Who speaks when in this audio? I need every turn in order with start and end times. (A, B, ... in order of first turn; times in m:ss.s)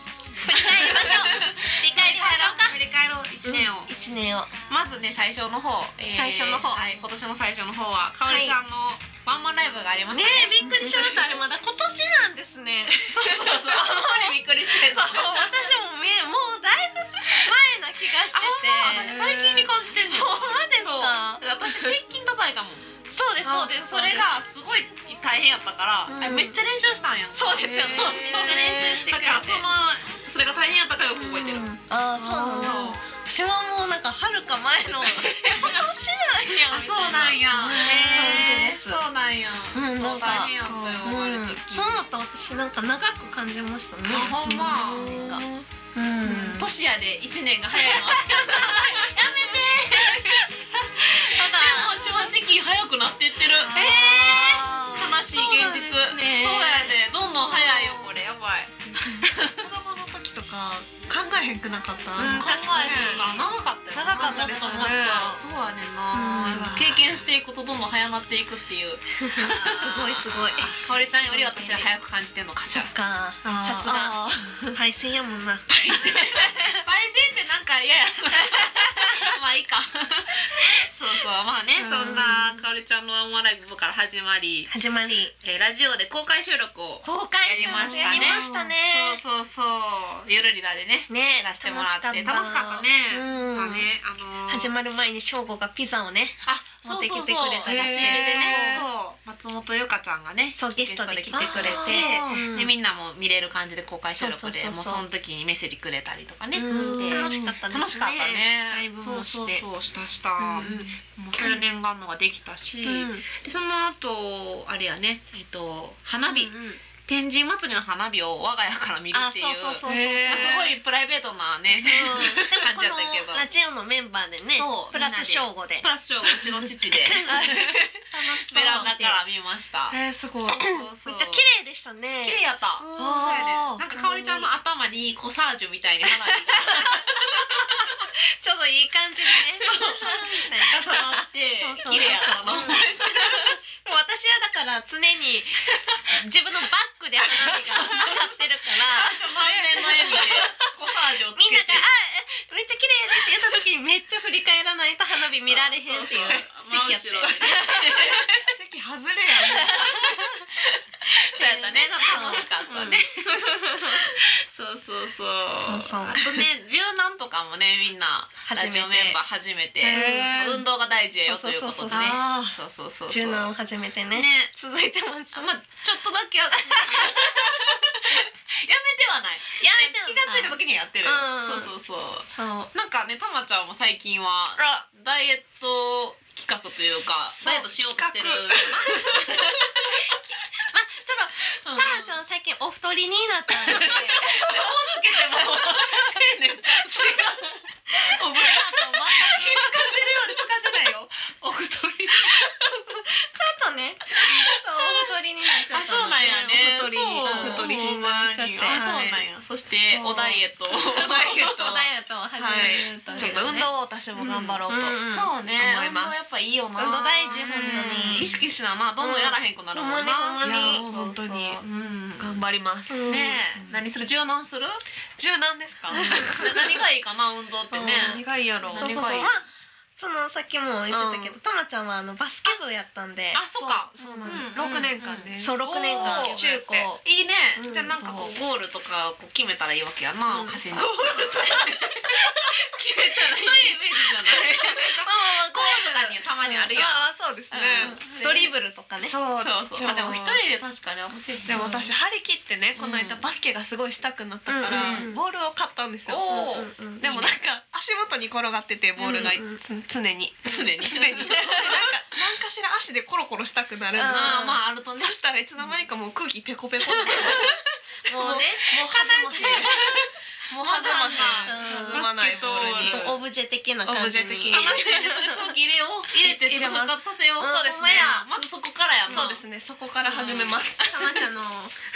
0:00.4-0:02.8 A
0:00.5-0:03.9 B
0:03.4-0:04.5 A
0:04.7-0:11.2 B
0:06.1-0:06.8 A
0:08.3-0:08.6 A
0:10.1-0:21.4 A
0:13.1-0:15.6 B
0:18.3-0:22.9 B
0:23.1-0:24.3 A
0:23.4-0:33.0 B
0:23.5-0:23.7 C
0:26.1-0:26.6 A
0:27.4-0:29.7 A
0:27.4-0:29.3 C
0:31.2-0:39.0 A
0:32.2-0:33.0 C
0:35.2-0:35.8 B
0:36.7-0:42.0 B
0:39.7-0:46.7 A
0:40.6-0:41.2 C
0:44.1-0:45.2 B
0:44.6-0:45.6 C
0:46.2-0:59.6 B
0:47.7-0:50.4 A
0:51.0-0:52.0 A
0:53.5-0:56.9 A
0:53.7-0:54.6 C
0:55.4-0:56.3 C
0:59.1-1:03.4 C
1:02.2-1:03.3 A
1:02.2-1:12.9 B
1:03.9-1:05.4 C
1:04.2-1:05.0 A
1:06.1-1:07.0 A
1:06.5-1:07.0 C
1:09.3-1:11.9 A
1:12.7-1:16.7 A
1:13.4-1:14.7 C
1:15.7-1:24.7 B
1:18.5-1:18.8 A
1:21.8-1:22.4 A
1:24.7-1:25.3 A
1:25.4-1:34.7 B
1:27.0-1:29.2 A
1:27.6-1:28.7 C
1:31.1-1:33.9 A
1:34.5-1:38.9 A
1:36.4-2:03.5 B
1:37.6-1:38.8 C
1:40.6-1:42.7 A
1:41.3-1:42.4 C
1:44.2-1:45.1 A
1:46.5-1:49.6 A
1:46.7-1:47.6 C
1:50.4-1:51.6 A
1:52.8-1:53.2 A
1:56.3-1:56.8 A
1:59.1-2:00.6 A
1:59.8-2:00.8 C
2:01.8-2:05.9 A
2:02.1-2:02.4 C
2:04.5-2:07.8 B
2:07.0-2:09.2 A
2:07.2-2:07.8 C
2:08.4-2:11.5 B
2:09.9-2:10.7 C
2:10.7-2:14.5 A
2:12.2-2:17.6 B
2:13.0-2:13.8 C
2:16.6-2:17.1 A
2:18.0-2:29.2 A
2:19.5-2:23.6 B
2:27.3-2:28.2 B
2:28.7-2:31.9 B
2:29.5-2:30.0 C
2:29.8-2:30.6 A
2:31.3-2:38.2 A
2:35.4-2:38.4 B
2:38.4-2:40.2 C
2:39.6-2:43.4 B
2:39.8-2:40.2 A
2:41.4-2:44.0 A
2:42.1-2:42.4 C
2:44.2-2:53.5 B
2:45.6-2:46.5 A
2:48.5-2:49.2 A
2:49.8-2:50.4 A
2:49.8-2:50.6 C
2:51.2-2:52.2 A
2:51.9-2:52.6 C
2:53.1-2:55.5 A
2:54.1-2:54.5 B
2:55.3-3:09.9 B
2:56.7-2:57.7 A
2:59.6-3:01.7 A
3:02.3-3:02.7 A
3:07.4-3:09.1 C
3:08.9-3:09.2 A
3:10.7-3:14.8 A
3:11.6-3:12.2 B
3:13.5-3:22.6 B
3:15.3-3:16.0 A
3:18.1-3:18.6 A
3:22.4-3:28.8 A
3:24.2-3:25.1 B
3:25.7-3:31.8 B
3:26.1-3:28.0 C
3:28.6-3:29.3 C
3:29.9-3:30.4 C
3:30.8-3:35.3 A
3:31.0-3:35.0 C
3:32.6-3:33.6 B
3:34.2-3:42.4 B
3:35.6-3:36.3 C
3:36.8-3:38.3 A
3:37.3-3:38.4 C
3:39.0-3:40.8 A
3:40.4-3:41.6 C
3:42.2-3:43.8 C
3:42.9-3:43.4 A
3:43.0-3:44.8 B
3:45.2-3:46.8 C
3:46.0-3:49.4 B
3:47.7-3:48.2 A
3:47.8-3:49.3 C
3:48.7-3:53.4 A
3:50.9-3:51.4 C
3:53.3-3:55.3 B
3:53.6-3:56.6 C
3:54.0-3:54.5 A
3:55.4-3:57.0 A
3:55.9-4:08.5 B
3:57.6-3:57.9 A
3:57.9-3:58.4 C
4:00.3-4:00.6 A
4:00.7-4:01.8 C
4:02.7-4:03.7 C
4:04.8-4:06.2 A
4:06.4-4:08.0 C
4:07.8-4:09.2 A
4:09.0-4:10.4 C
4:09.4-4:11.9 B
4:11.5-4:16.4 C
4:12.8-4:13.2 B
4:14.5-4:15.2 A
4:14.7-4:15.1 B
4:16.1-4:17.3 B
4:16.3-4:17.3 A
4:17.0-4:27.6 C
4:19.0-4:19.4 B
4:19.0-4:19.6 A
4:20.4-4:21.9 B
4:24.0-4:24.6 A
4:24.1-4:25.2 B
4:27.0-4:27.5 B
4:27.0-4:27.4 A
4:28.1-4:29.9 A
4:28.1-4:30.0 C
4:28.9-4:30.0 B
4:30.5-4:33.2 C
4:30.6-4:33.2 B
4:31.4-4:32.1 A
4:32.7-4:35.3 A
4:33.8-4:34.9 C
4:34.5-4:39.4 B
4:36.2-4:37.0 C
4:37.4-4:38.3 A
4:39.0-4:41.3 C
4:40.0-4:40.9 B
4:40.8-4:41.8 A